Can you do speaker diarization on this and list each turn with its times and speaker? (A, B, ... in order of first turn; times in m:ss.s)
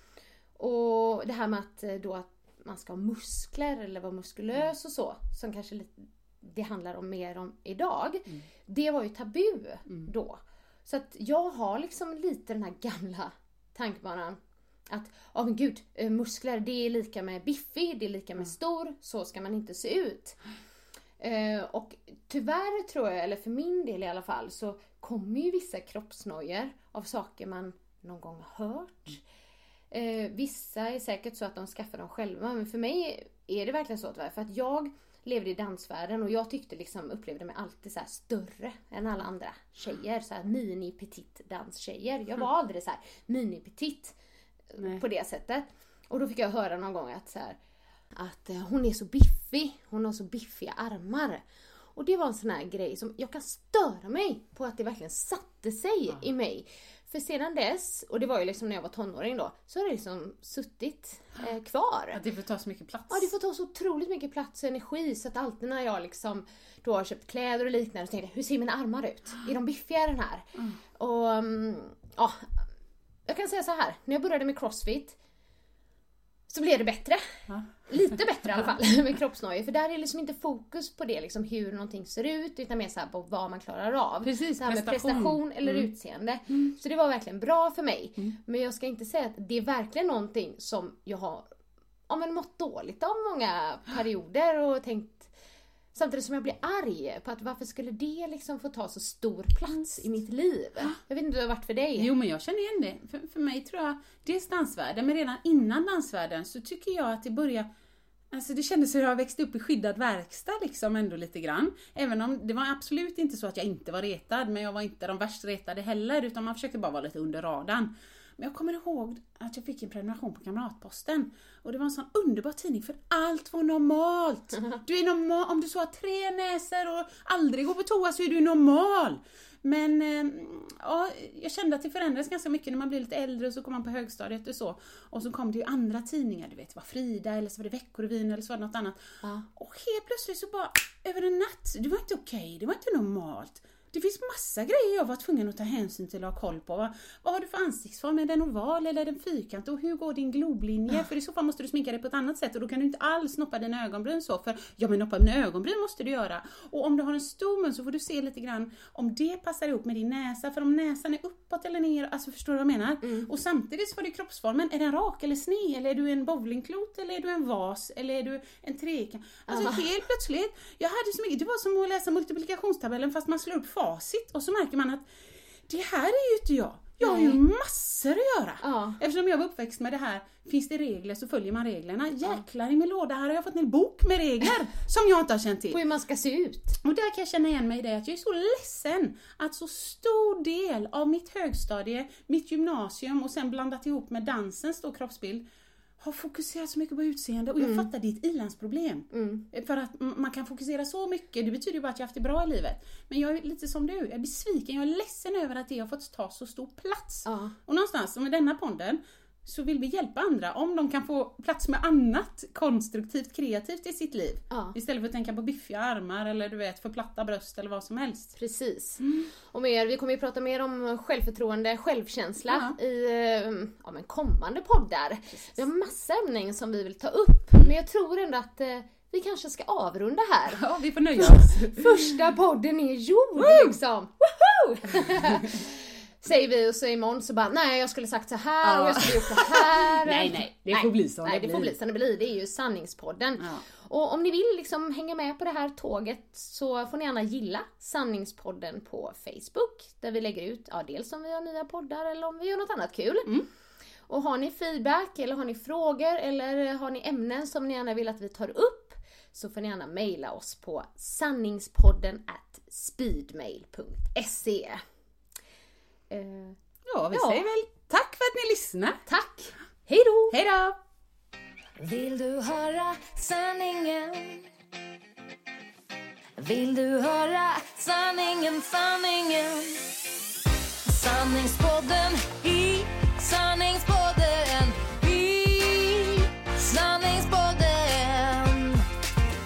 0:00.6-0:14.4 A
0:14.9-0:20.4 A
0:21.2-0:29.2 A
0:29.9-0:44.2 A
0:44.7-0:47.6 A
0:48.1-0:51.4 A
0:51.9-1:02.2 A
1:02.1-1:03.3 B
1:03.1-1:10.4 A
1:11.0-1:12.6 A
1:13.3-1:15.2 A
1:16.5-1:31.4 A
1:24.2-1:25.9 B
1:32.1-1:35.3 A
1:35.9-1:42.1 A
1:39.7-1:40.0 B
1:42.0-1:47.7 B
1:48.3-2:55.1 B
2:43.0-2:43.3 A
2:49.5-2:49.9 A
2:55.7-3:05.8 B
2:57.0-2:57.4 A
2:58.6-2:59.0 A
3:05.7-3:06.8 A
3:06.8-3:15.4 B
3:16.0-3:38.3 B
3:17.6-3:17.8 A
3:19.1-3:19.4 A
3:27.2-3:27.5 A
3:34.5-3:34.8 A
3:38.4-3:50.6 A
3:42.5-3:42.8 B
3:45.3-3:45.6 B
3:50.5-3:52.2 B
3:51.2-4:13.3 A
3:53.4-3:53.8 B
3:58.6-4:01.8 B
4:03.4-4:03.6 B
4:14.1-4:24.8 A
4:26.1-4:26.6 A
4:26.9-4:29.0 B
4:27.1-4:27.4 A
4:29.1-4:30.4 A
4:30.3-4:30.8 B
4:31.8-4:34.4 C
4:36.4-4:40.0 C
4:40.8-4:48.8 C